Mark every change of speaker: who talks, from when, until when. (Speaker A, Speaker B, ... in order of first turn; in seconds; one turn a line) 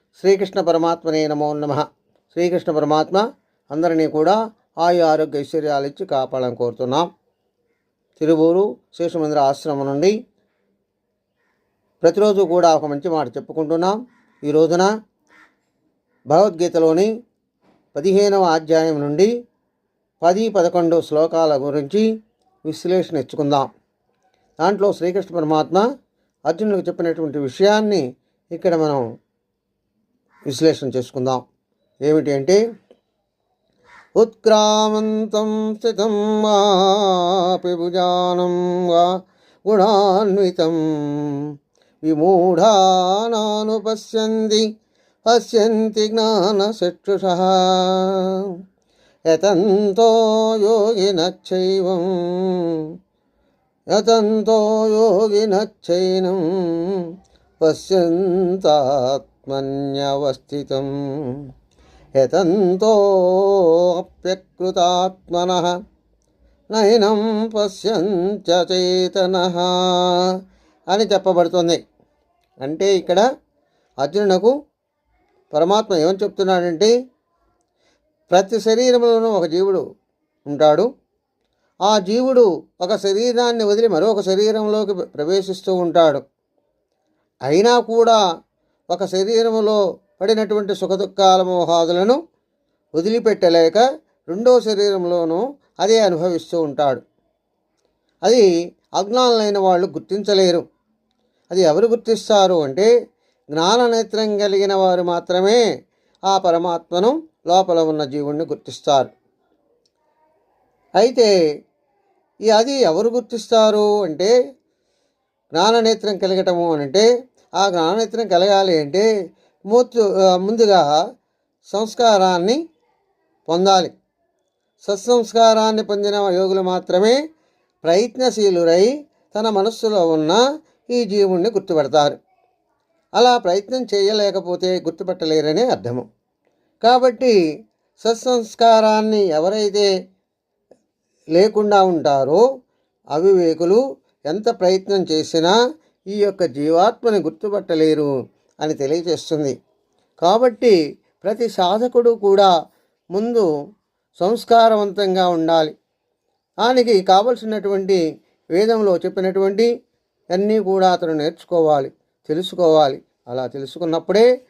Speaker A: 0.2-7.1
Speaker A: 8.2-10.1
Speaker A: 12.0-14.9
Speaker A: 16.3-17.1
Speaker A: 17.9-19.3
Speaker A: 20.2-22.1
Speaker A: 22.6-23.7
Speaker A: 24.6-25.8
Speaker A: 26.5-28.0
Speaker A: 28.5-29.0
Speaker A: 30.5-31.4
Speaker A: 32.1-32.6
Speaker A: 34.2-39.1
Speaker A: 39.7-41.3
Speaker A: 42.1-44.6
Speaker A: 45.3-48.5
Speaker A: 49.3-52.8
Speaker A: 53.9-57.0
Speaker A: 57.6-61.4
Speaker A: 62.2-65.7
Speaker A: 66.7-70.2
Speaker A: 70.9-71.8
Speaker A: 72.6-73.2
Speaker A: 74.0-74.5
Speaker A: 75.5-76.9
Speaker A: 78.3-79.8
Speaker A: 80.5-80.9
Speaker A: 81.9-86.2
Speaker A: 87.5-88.2
Speaker A: 88.9-92.2
Speaker A: 93.0-97.0
Speaker A: 99.0-100.7
Speaker A: 101.5-102.9
Speaker A: 103.5-105.6
Speaker A: 106.3-109.1
Speaker A: 111.0-111.3
Speaker A: 112.5-114.3
Speaker A: 115.6-117.1
Speaker A: 117.6-119.1
Speaker A: 119.7-120.8
Speaker A: 121.7-122.6
Speaker A: 123.5-124.0
Speaker A: 124.8-127.2
Speaker A: 127.8-130.4
Speaker A: 130.9-132.2
Speaker A: 133.2-136.0
Speaker A: 136.8-137.4
Speaker A: 138.0-139.9
Speaker A: 141.4-142.4
Speaker A: 143.1-145.6
Speaker A: 146.1-148.1
Speaker A: 148.6-149.6
Speaker A: 150.2-152.5
Speaker A: 153.2-153.5
Speaker A: 154.2-155.7
Speaker A: 156.6-158.0
Speaker A: 158.6-159.7
Speaker A: 160.3-164.3